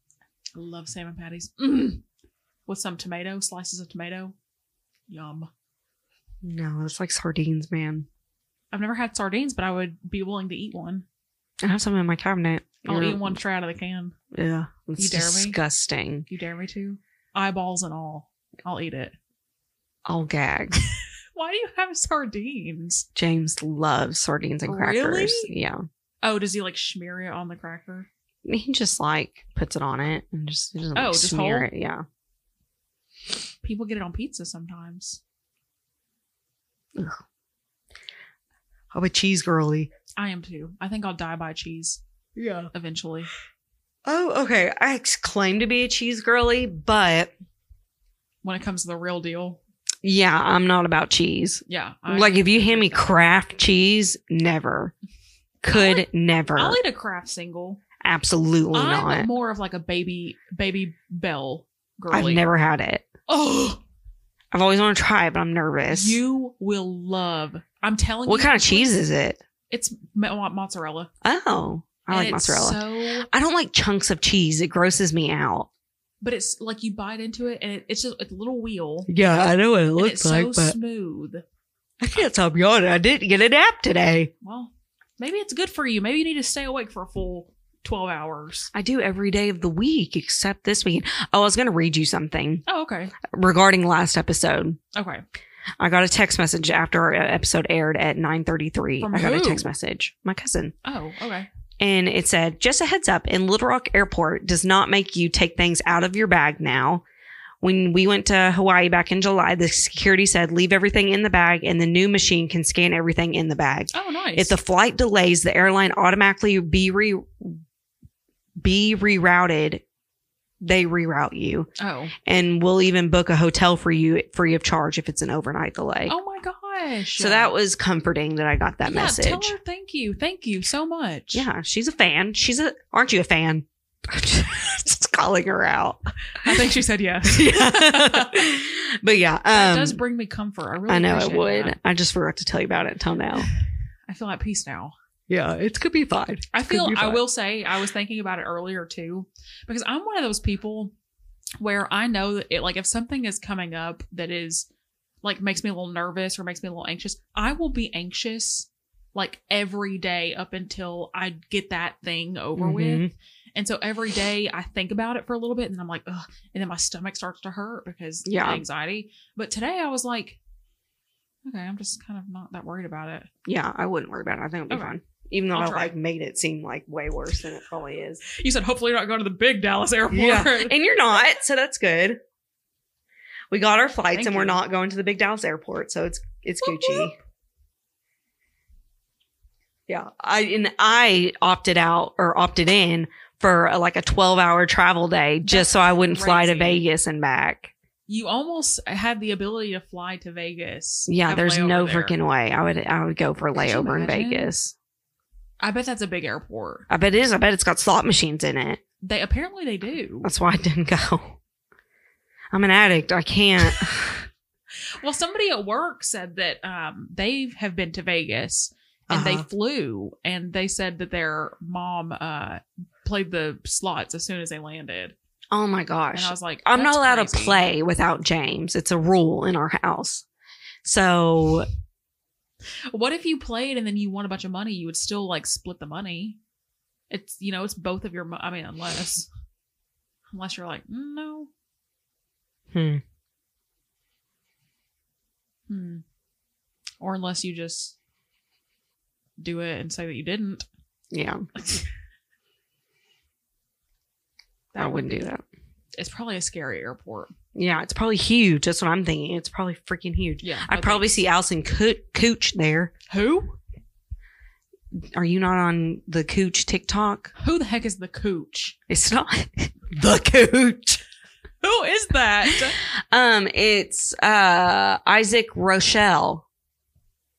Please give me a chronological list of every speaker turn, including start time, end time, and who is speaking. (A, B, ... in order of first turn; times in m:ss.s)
0:00.6-0:02.0 A
0:02.7-0:04.4 A
0:05.1-0:05.5 A
0:06.4-0:08.1 B
0:08.7-0:11.1 A
0:11.6-0:13.4 B
0:12.8-0:14.2 A
0:14.3-0:16.3 B
0:15.0-0:15.6 A
0:16.3-0:19.2 A
0:20.1-0:20.8 B
0:21.4-0:23.1 A
0:23.2-0:25.8 B
0:24.7-0:25.5 A
0:26.2-0:28.1 A
0:28.4-0:32.0 B
0:31.0-0:31.7 A
0:33.6-0:35.2 A
0:37.0-0:37.2 B
0:38.9-0:39.9 B
0:40.2-0:42.0 A
0:42.4-0:42.7 B
0:42.7-0:43.3 A
0:44.0-0:47.3 B
0:48.4-0:49.6 A
0:50.0-0:54.9 B
0:51.7-0:53.3 A
0:55.6-0:56.8 B
0:55.7-0:57.8 A
0:58.0-0:59.3 B
0:58.7-1:02.4 A
1:02.1-1:03.1 B
1:03.3-1:03.8 A
1:04.5-1:06.2 B
1:05.9-1:09.0 A
1:08.3-1:09.4 B
1:09.7-1:11.1 A
1:11.2-1:15.7 B
1:12.1-1:13.3 A
1:16.2-1:19.1 A
1:19.1-1:20.8 B
1:20.0-1:21.4 A
1:22.0-1:24.3 B
1:24.4-1:28.7 A
1:28.7-1:32.6 B
1:32.7-1:33.1 A
1:33.2-1:34.8 B
1:34.9-1:35.2 A
1:35.8-1:40.7 B
1:39.0-1:39.7 A
1:40.8-1:41.5 A
1:41.8-1:47.0 B
1:47.6-1:57.6 B
1:53.9-1:54.6 A
1:58.6-1:59.8 B
2:00.6-2:01.7 B
2:01.8-2:02.1 A
2:02.2-2:06.2 B
2:06.1-2:07.5 A
2:07.2-2:09.5 B
2:08.8-2:11.5 A
2:11.3-2:16.6 B
2:16.4-2:18.5 A
2:17.3-2:20.0 B
2:19.5-2:21.8 A
2:20.9-2:23.5 B
2:24.1-2:24.9 A
2:25.3-2:27.2 B
2:26.5-2:30.9 A
2:31.6-2:34.7 A
2:35.2-2:50.4 A
2:42.6-2:43.1 B
2:48.3-2:48.6 B
2:51.4-2:53.3 A
2:53.4-2:58.2 B
2:54.7-2:55.0 A
2:55.5-2:55.9 A
2:58.3-3:00.8 A
3:00.1-3:02.2 B
3:03.5-3:07.2 B
3:04.1-3:04.6 A
3:06.6-3:07.1 A
3:09.9-3:17.7 B
3:15.5-3:16.8 A
3:18.1-3:22.2 A
3:21.1-3:24.7 B
3:23.6-3:24.5 A
3:25.6-3:26.9 A
3:26.9-3:28.8 B
3:29.0-3:30.3 A
3:30.2-3:31.4 B
3:32.5-3:34.3 B
3:35.0-3:45.2 A
3:39.1-3:39.5 B
3:45.5-3:50.2 B
3:46.1-3:47.6 A
3:50.8-3:51.7 B
3:52.9-3:56.4 A
3:57.1-3:59.3 A
4:00.3-4:01.5 A
4:02.7-4:03.0 B
4:05.7-4:06.0 A
4:07.0-4:08.0 A
4:09.4-4:10.7 A
4:11.1-4:11.5 B
4:11.6-4:11.9 A
4:14.7-4:15.3 A
4:14.8-4:15.4 B
4:16.0-4:17.3 A
4:17.6-4:22.9 B
4:20.4-4:21.2 A
4:23.1-4:23.6 A
4:24.9-4:27.3 B
4:27.4-4:28.8 A
4:28.9-4:31.0 B
4:31.6-4:32.8 A
4:32.5-4:36.4 B